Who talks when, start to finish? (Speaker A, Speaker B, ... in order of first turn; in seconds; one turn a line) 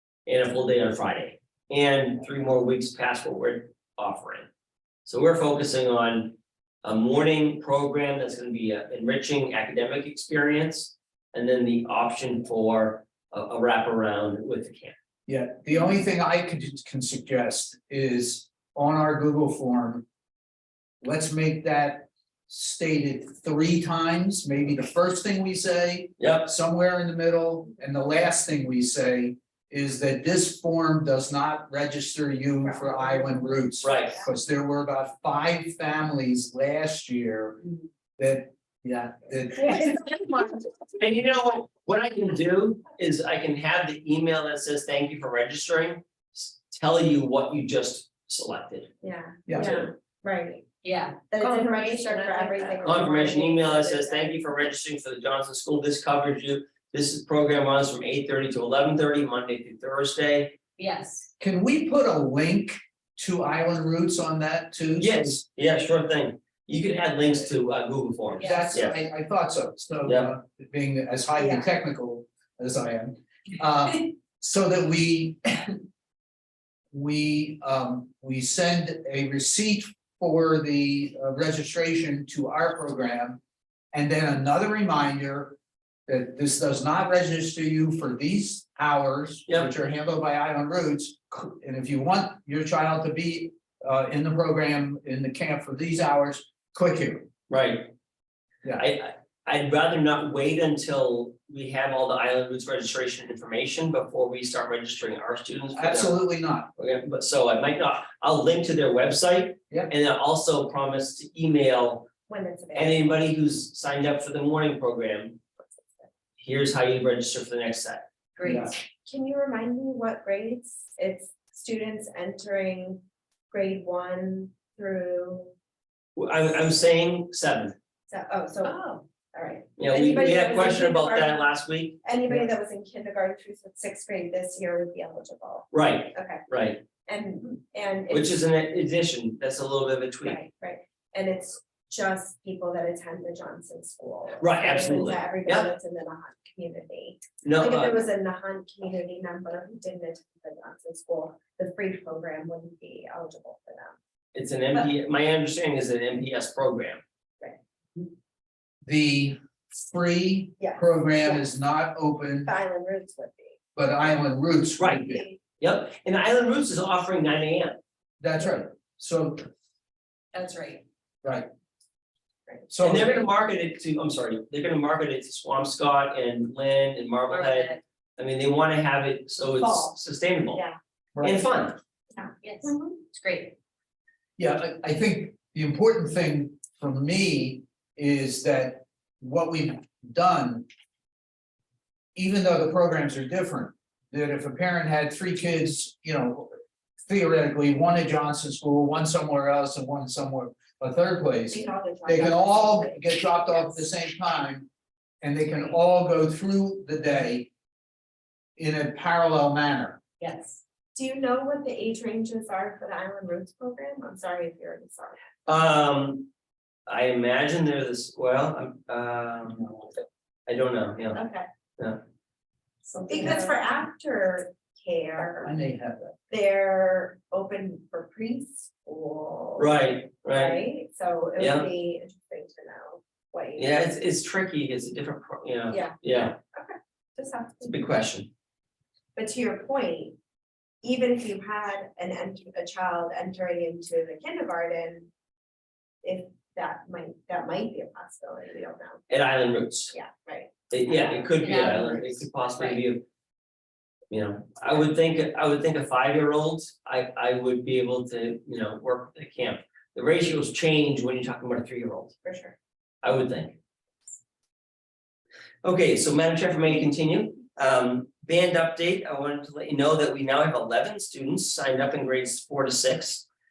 Speaker A: 0.2-4.5
Speaker A: 5.0-14.9
Speaker B: 15.3-20.1
Speaker B: 21.0-40.1
Speaker A: 26.2-26.5
Speaker C: 32.6-34.3
Speaker A: 33.8-34.2
Speaker C: 39.7-40.5
Speaker A: 41.0-48.9
Speaker C: 49.0-50.6
Speaker B: 49.5-49.9
Speaker D: 50.8-53.5
Speaker C: 51.3-54.4
Speaker A: 52.8-60.6
Speaker D: 60.8-61.3
Speaker B: 61.4-65.4
Speaker A: 65.0-69.0
Speaker D: 68.3-68.8
Speaker B: 68.4-75.8
Speaker A: 70.0-70.3
Speaker C: 71.4-71.7
Speaker B: 76.9-83.4
Speaker B: 83.9-85.5
Speaker B: 86.1-97.3
Speaker A: 97.5-97.9
Speaker A: 98.7-106.2
Speaker B: 105.7-106.7
Speaker A: 106.8-112.1
Speaker C: 112.3-113.2
Speaker A: 112.7-115.4
Speaker C: 115.6-116.1
Speaker A: 116.4-118.0
Speaker D: 118.3-118.8
Speaker B: 118.4-118.7
Speaker C: 119.0-125.5
Speaker A: 126.2-127.7
Speaker C: 128.1-128.8
Speaker D: 128.6-129.0
Speaker C: 129.3-131.5
Speaker A: 129.8-132.0
Speaker C: 132.0-136.4
Speaker A: 135.7-136.8
Speaker C: 137.1-138.4
Speaker A: 138.1-140.4
Speaker C: 140.2-153.9
Speaker A: 144.4-145.7
Speaker A: 147.4-148.0
Speaker A: 154.3-157.0
Speaker B: 158.8-162.5
Speaker C: 160.6-161.4
Speaker C: 162.4-163.6
Speaker B: 163.8-165.3
Speaker A: 164.8-165.1
Speaker C: 165.1-165.4
Speaker A: 165.6-167.8
Speaker B: 168.2-169.5
Speaker D: 170.3-170.8
Speaker B: 172.7-173.2
Speaker A: 172.8-180.7
Speaker D: 177.3-177.8
Speaker B: 181.2-181.4
Speaker A: 181.2-181.8
Speaker C: 182.2-183.0
Speaker D: 182.4-183.5
Speaker B: 184.4-190.7
Speaker B: 192.1-196.5
Speaker B: 197.1-204.7
Speaker C: 201.5-203.6
Speaker B: 205.2-207.5
Speaker B: 208.6-210.0
Speaker D: 210.2-210.6
Speaker C: 210.9-215.2
Speaker A: 215.5-216.3
Speaker A: 216.9-219.8
Speaker A: 220.5-221.2
Speaker C: 221.1-221.4
Speaker D: 222.9-223.5
Speaker C: 223.1-225.5
Speaker B: 225.4-226.1
Speaker C: 226.3-233.9
Speaker A: 229.6-230.6
Speaker A: 231.4-231.7
Speaker A: 233.6-236.3
Speaker C: 235.7-237.8
Speaker A: 237.6-238.3
Speaker C: 239.2-240.2
Speaker C: 240.8-245.1
Speaker C: 246.0-249.0
Speaker A: 249.1-249.9
Speaker C: 249.9-251.3
Speaker A: 250.7-253.0
Speaker D: 251.4-252.8
Speaker A: 254.1-262.1
Speaker C: 262.2-262.6
Speaker A: 263.0-263.6
Speaker A: 265.6-273.2